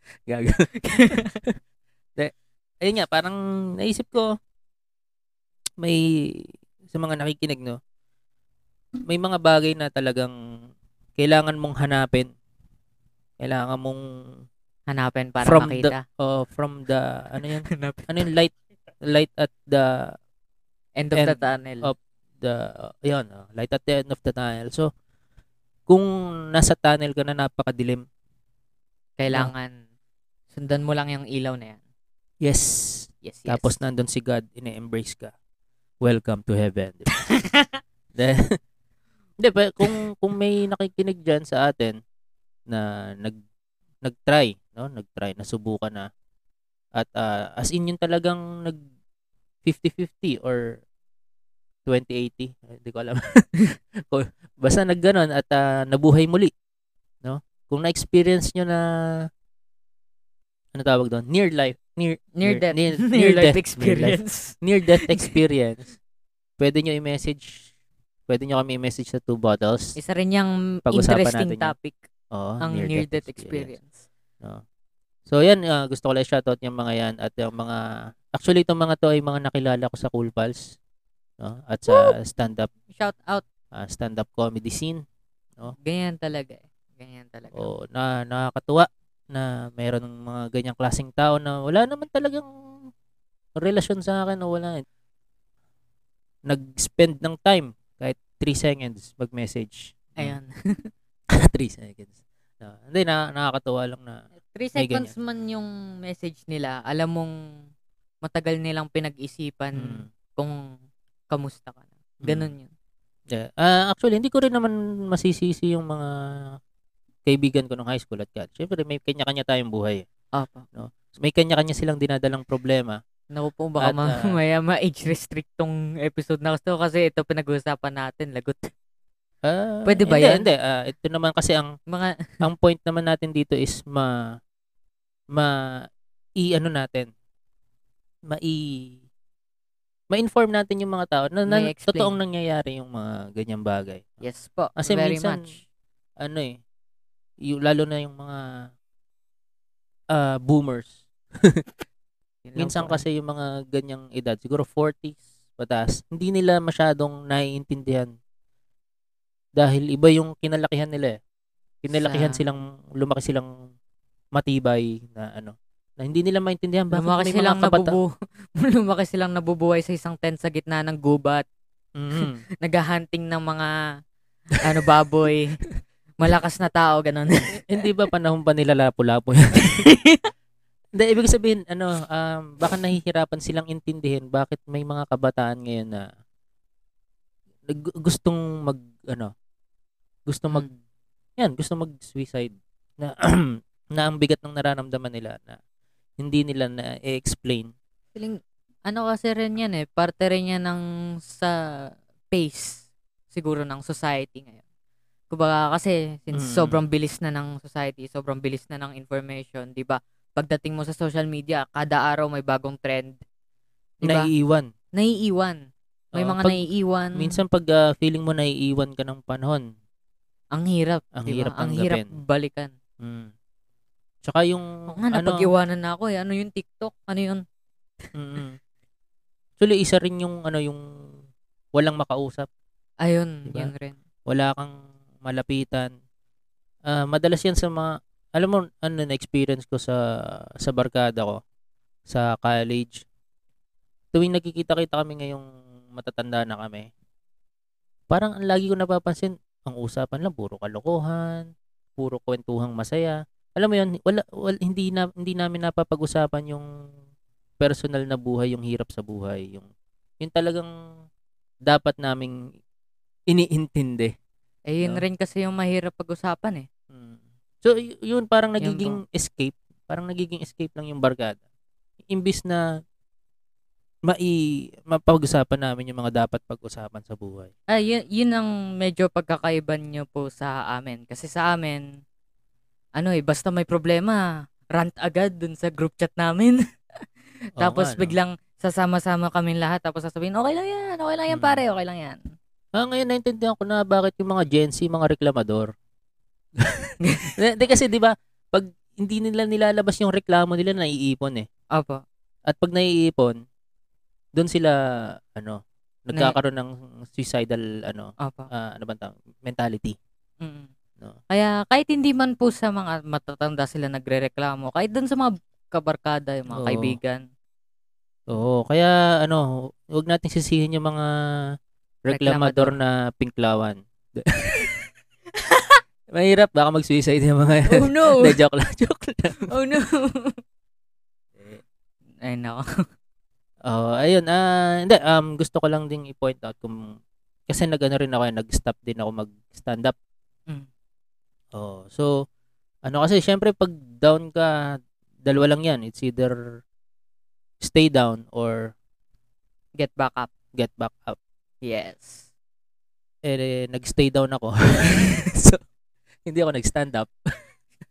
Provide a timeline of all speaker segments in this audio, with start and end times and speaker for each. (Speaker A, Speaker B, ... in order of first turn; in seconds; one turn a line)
Speaker A: 0.3-1.2
Speaker B: 0.8-1.4
Speaker A: 2.1-4.3
Speaker A: 5.8-7.8
Speaker A: 9.1-10.3
Speaker A: 11.2-12.3
Speaker A: 13.4-14.0
Speaker B: 14.9-16.0
Speaker A: 15.4-20.1
Speaker B: 17.6-18.3
Speaker B: 21.0-21.9
Speaker A: 21.1-24.9
Speaker A: 25.9-28.0
Speaker B: 29.2-29.8
Speaker B: 30.5-31.8
Speaker A: 32.4-35.3
Speaker B: 33.2-33.8
Speaker A: 36.0-37.1
Speaker B: 37.1-37.8
Speaker A: 38.1-38.4
Speaker A: 39.4-42.0
Speaker A: 42.7-43.4
Speaker A: 44.0-46.1
Speaker A: 47.0-48.8
Speaker A: 49.6-50.7
Speaker A: 51.9-53.4
Speaker A: 54.1-56.5
Speaker A: 57.2-59.2
Speaker A: 60.7-65.9
Speaker B: 62.3-65.4
Speaker A: 66.6-67.7
Speaker A: 68.3-70.0
Speaker B: 70.0-72.0
Speaker A: 70.9-71.7
Speaker A: 72.3-73.7
Speaker B: 72.6-74.0
Speaker A: 75.3-80.7
Speaker A: 81.4-82.7
Speaker B: 81.9-82.2
Speaker B: 82.9-83.5
Speaker A: 83.7-85.0
Speaker B: 85.7-87.7
Speaker A: 87.5-92.9
Speaker A: 93.6-94.8
Speaker A: 96.5-100.3
Speaker B: 100.2-100.5
Speaker A: 101.3-102.1
Speaker A: 102.6-104.2
Speaker B: 104.5-107.3
Speaker A: 104.8-105.1
Speaker B: 108.2-110.5
Speaker A: 109.8-110.1
Speaker B: 111.3-112.7
Speaker A: 112.2-112.5
Speaker A: 113.3-116.1
Speaker A: 117.2-120.0
Speaker B: 120.3-120.7
Speaker A: 120.7-123.0
Speaker B: 123.3-128.7
Speaker A: 123.8-124.3
Speaker A: 129.4-131.7
Speaker B: 129.8-130.5
Speaker B: 131.9-132.4
Speaker A: 132.4-134.2
Speaker A: 135.3-135.8
Speaker A: 136.4-137.1
Speaker A: 138.3-139.0
Speaker A: 140.1-144.2
Speaker B: 141.5-142.1
Speaker B: 144.2-145.6
Speaker A: 144.8-145.5
Speaker A: 146.2-146.6
Speaker A: 147.4-148.7
Speaker A: 150.1-151.6
Speaker B: 152.4-153.0
Speaker A: 152.6-158.1
Speaker A: 159.6-161.2
Speaker A: 161.8-163.5
Speaker B: 161.9-162.4
Speaker A: 164.3-168.0
Speaker B: 166.9-171.4
Speaker A: 172.0-172.4
Speaker B: 172.2-173.7
Speaker B: 174.6-175.6
Speaker B: 176.2-177.6
Speaker A: 177.6-179.8
Speaker B: 179.8-180.3
Speaker A: 180.9-186.1
Speaker A: 187.7-189.3
Speaker A: 190.3-190.7
Speaker B: 190.5-190.8
Speaker A: 191.4-195.6
Speaker A: 196.2-197.7
Speaker B: 198.1-201.5
Speaker B: 202.3-204.6
Speaker B: 205.3-213.2
Speaker A: 206.3-206.8
Speaker B: 214.0-214.3
Speaker A: 214.0-214.7
Speaker B: 214.9-217.4
Speaker A: 216.1-216.6
Speaker A: 217.2-219.6
Speaker B: 220.5-222.7
Speaker A: 221.1-222.1
Speaker A: 223.0-223.3
Speaker A: 224.2-225.5
Speaker B: 224.9-227.4
Speaker A: 228.1-228.6
Speaker A: 229.6-230.8
Speaker A: 231.7-232.5
Speaker B: 233.0-233.9
Speaker A: 233.5-233.7
Speaker A: 234.3-235.9
Speaker A: 236.8-240.0
Speaker A: 240.6-241.4
Speaker A: 242.1-243.0
Speaker A: 244.1-246.9
Speaker A: 248.1-256.7
Speaker A: 257.6-259.7
Speaker A: 260.2-260.7
Speaker A: 261.6-262.3
Speaker A: 263.3-264.1
Speaker B: 264.7-266.7
Speaker A: 266.9-271.4
Speaker B: 268.6-269.0
Speaker A: 272.1-272.6
Speaker A: 274.1-277.5
Speaker B: 277.7-282.0
Speaker B: 283.0-286.6
Speaker A: 287.6-288.1
Speaker B: 287.6-292.2
Speaker A: 291.3-291.6
Speaker A: 292.8-295.7
Speaker A: 296.6-301.4
Speaker B: 297.0-297.3
Speaker B: 301.7-302.0
Speaker A: 302.5-303.4
Speaker A: 304.4-304.8
Speaker A: 305.3-309.9
Speaker B: 308.2-308.5
Speaker B: 310.4-310.7
Speaker B: 311.3-317.2
Speaker A: 316.5-317.0
Speaker A: 318.3-321.1
Speaker A: 322.1-324.7
Speaker B: 322.1-322.8
Speaker B: 325.5-325.8
Speaker A: 326.1-329.5
Speaker B: 327.7-328.4
Speaker B: 329.5-330.4
Speaker B: 332.2-332.6
Speaker A: 333.6-336.9
Speaker A: 337.5-339.9
Speaker A: 341.5-342.1
Speaker A: 342.9-346.4
Speaker A: 347.6-348.7
Speaker B: 349.8-350.3
Speaker A: 350.6-351.2
Speaker B: 351.6-352.2
Speaker A: 353.2-355.6
Speaker A: 356.2-357.1